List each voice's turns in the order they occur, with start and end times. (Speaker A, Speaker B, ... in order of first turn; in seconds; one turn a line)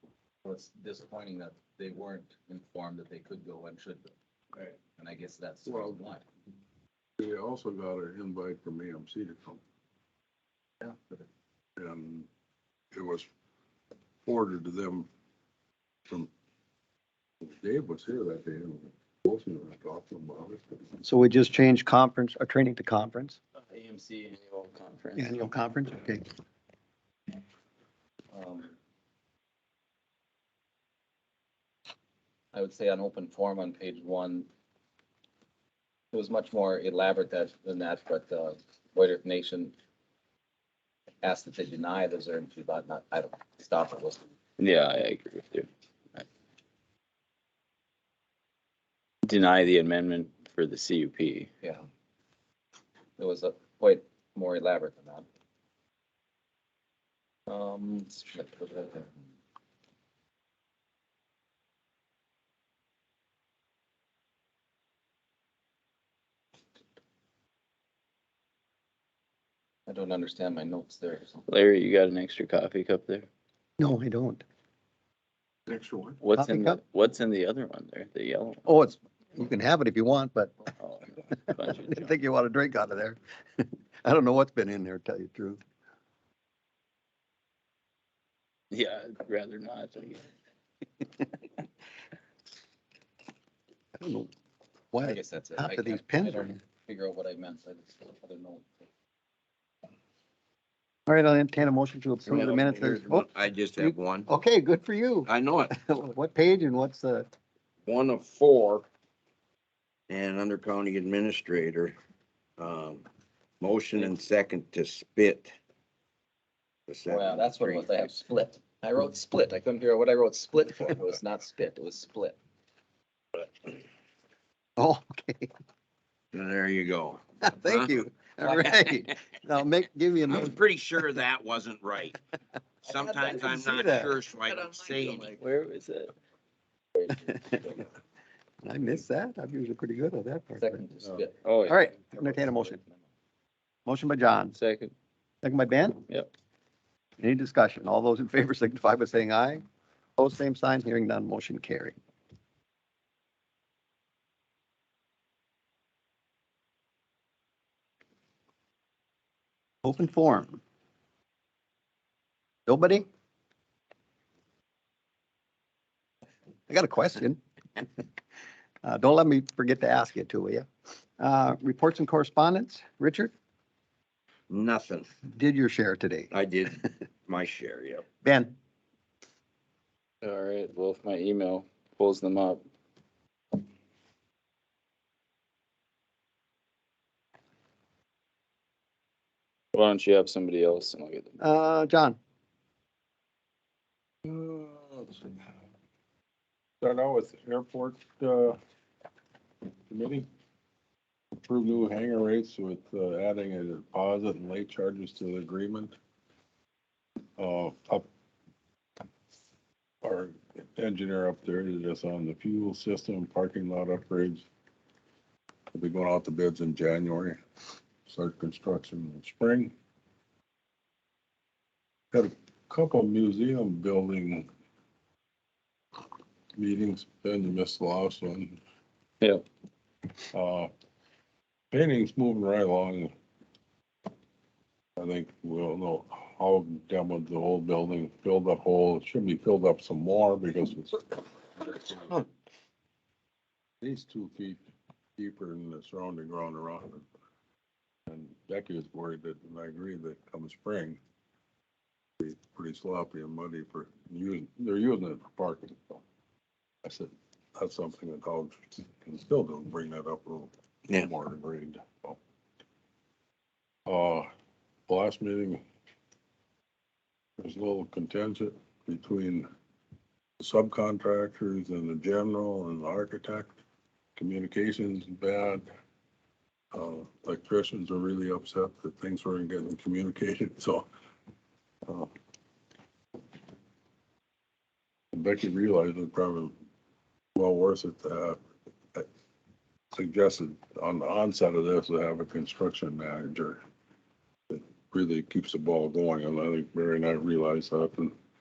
Speaker A: 0.4-4.1
Speaker A: 4.9-6.2
Speaker B: 5.7-6.0
Speaker B: 7.2-9.6
Speaker A: 10.8-11.2
Speaker B: 11.8-12.3
Speaker B: 12.9-13.3
Speaker B: 14.2-15.1
Speaker B: 17.4-20.8
Speaker C: 21.0-23.4
Speaker D: 23.6-25.3
Speaker C: 25.2-26.3
Speaker A: 28.3-28.7
Speaker A: 32.5-34.5
Speaker A: 36.1-39.7
Speaker A: 41.2-44.3
Speaker D: 44.6-46.2
Speaker D: 49.2-51.5
Speaker A: 53.2-55.3
Speaker A: 57.5-59.1
Speaker A: 69.9-71.4
Speaker D: 71.5-73.3
Speaker C: 73.8-74.4
Speaker D: 76.2-78.7
Speaker C: 76.2-76.8
Speaker C: 78.7-80.7
Speaker D: 80.8-82.2
Speaker C: 81.5-85.6
Speaker D: 88.7-90.2
Speaker C: 94.0-94.3
Speaker C: 94.9-96.6
Speaker A: 95.0-98.7
Speaker C: 101.1-107.3
Speaker E: 102.3-104.3
Speaker E: 105.3-105.7
Speaker E: 107.9-108.9
Speaker E: 110.1-112.0
Speaker E: 112.6-113.1
Speaker E: 113.6-115.5
Speaker E: 116.9-118.1
Speaker A: 117.1-122.4
Speaker C: 124.8-125.5
Speaker E: 126.3-128.1
Speaker C: 127.4-130.6
Speaker E: 130.3-132.2
Speaker E: 132.8-135.4
Speaker C: 133.4-134.2
Speaker D: 135.1-136.1
Speaker A: 137.0-137.8
Speaker C: 137.1-137.8
Speaker C: 138.6-140.8
Speaker A: 140.6-143.1
Speaker D: 141.4-141.8
Speaker C: 141.7-142.8
Speaker C: 143.9-144.6
Speaker D: 144.6-144.9
Speaker C: 145.4-146.1
Speaker C: 147.2-149.6
Speaker C: 150.2-151.9
Speaker C: 159.8-160.6
Speaker C: 162.7-163.1
Speaker C: 166.7-167.4
Speaker C: 168.8-170.7
Speaker C: 171.2-173.3
Speaker E: 174.5-175.1
Speaker C: 175.3-176.7
Speaker E: 176.3-178.1
Speaker C: 178.2-178.6
Speaker D: 180.2-182.6
Speaker D: 189.7-191.3
Speaker C: 191.4-192.2
Speaker B: 194.2-195.4
Speaker B: 196.8-198.6
Speaker B: 199.9-200.3
Speaker B: 201.4-206.0
Speaker B: 207.4-208.1
Speaker B: 210.0-214.5
Speaker B: 215.7-217.4
Speaker B: 218.1-219.7
Speaker B: 222.1-224.5
Speaker B: 226.6-228.6
Speaker B: 230.3-230.7
Speaker B: 231.7-233.1
Speaker B: 235.0-242.3
Speaker B: 243.8-244.7
Speaker B: 245.2-247.1
Speaker B: 248.1-251.0
Speaker B: 252.2-256.0
Speaker B: 256.8-262.2
Speaker B: 263.9-264.3
Speaker B: 264.9-265.6
Speaker B: 267.4-269.5
Speaker B: 270.4-273.6
Speaker B: 274.2-275.7
Speaker B: 276.7-280.9
Speaker B: 285.1-286.6
Speaker B: 287.4-288.4
Speaker B: 289.9-293.6
Speaker B: 294.5-298.1